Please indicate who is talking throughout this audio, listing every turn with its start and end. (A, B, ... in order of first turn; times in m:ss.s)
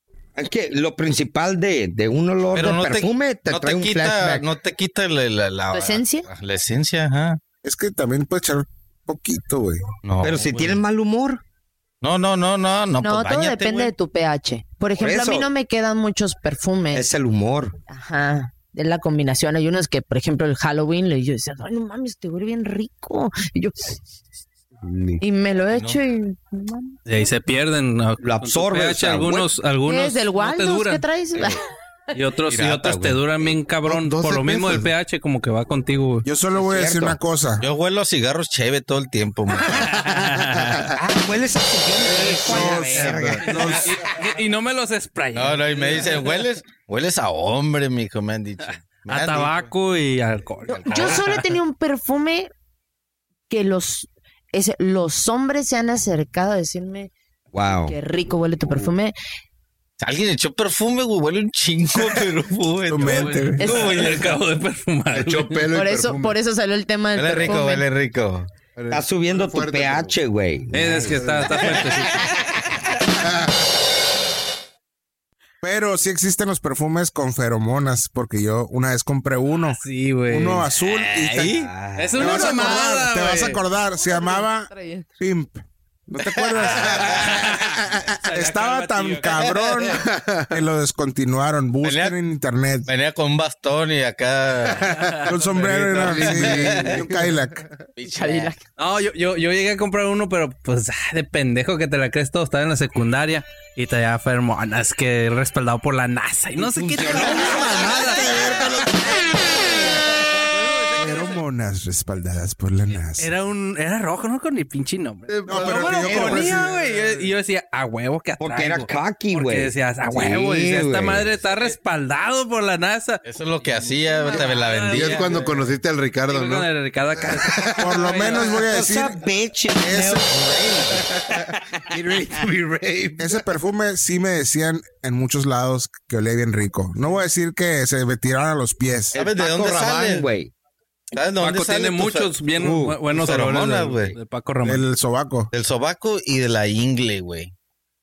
0:00.4-0:04.5 A
0:02.5-0:07.4 B
0:05.7-0:06.3 C
0:07.6-0:09.9 D
0:10.0-0:10.8 B
0:10.2-0:11.4 A
0:12.0-0:13.9 B
0:13.0-0:17.1 C
0:15.0-0:15.5 A
0:16.9-0:17.8 A
0:17.9-0:24.0 C
0:24.8-0:25.2 E
0:25.2-0:27.0 C
0:25.7-0:26.0 B
0:27.1-0:31.0 F
0:28.2-0:29.5 A
0:29.8-0:32.1 C
0:31.4-0:31.6 A
0:32.1-0:36.3 F
0:32.5-0:32.8 B
0:32.6-0:33.6 A
0:33.8-0:34.9 E
0:36.2-0:37.6 D
0:36.6-0:37.2 A
0:37.6-0:39.9 B
0:39.7-0:40.9 F
0:40.9-0:44.2 A
0:42.0-0:43.7 E
0:42.4-0:44.0 D
0:43.0-0:46.4 F
0:45.3-0:49.7 B
0:48.6-0:51.4 F
0:50.7-0:52.5 C
0:50.8-0:51.2 B
0:53.5-0:57.1 C
0:57.5-0:58.0 A
0:57.8-0:59.1 C
1:00.0-1:03.7 B
1:02.9-1:03.8 D
1:03.0-1:05.7 F
1:03.6-1:04.3 A
1:05.1-1:06.4 E
1:05.7-1:07.8 C
1:07.1-1:08.5 B
1:08.8-1:10.2 E
1:08.9-1:11.8 A
1:10.7-1:12.4 F
1:10.9-1:12.0 E
1:13.2-1:13.7 E
1:15.6-1:21.6 D
1:19.8-1:23.6 F
1:21.3-1:21.6 B
1:21.4-1:22.6 A
1:22.2-1:32.9 D
1:23.9-1:25.1 C
1:26.3-1:27.4 B
1:26.8-1:29.8 F
1:29.9-1:30.6 E
1:31.8-1:32.2 B
1:32.9-1:35.1 B
1:34.9-1:36.3 F
1:35.2-1:37.6 D
1:35.8-1:37.6 E
1:36.0-1:37.0 B
1:38.0-1:38.5 B
1:38.0-1:38.6 C
1:38.8-1:51.4 F
1:46.6-1:48.0 A
1:47.1-1:49.9 D
1:51.0-1:53.3 D
1:53.1-2:05.8 F
1:55.3-1:57.3 E
1:55.4-1:56.7 D
1:58.4-2:01.3 A
2:03.2-2:05.3 B
2:04.9-2:08.5 E
2:06.3-2:08.6 F
2:07.8-2:09.2 D
2:08.6-2:13.2 A
2:09.8-2:11.0 D
2:10.9-2:11.5 E
2:11.9-2:12.5 D
2:13.2-2:19.1 D
2:19.1-2:20.5 A
2:19.1-2:20.3 B
2:21.1-2:22.4 B
2:21.4-2:24.9 F
2:22.5-2:23.0 A
2:23.1-2:24.1 B
2:24.6-2:25.5 D
2:25.5-2:27.5 B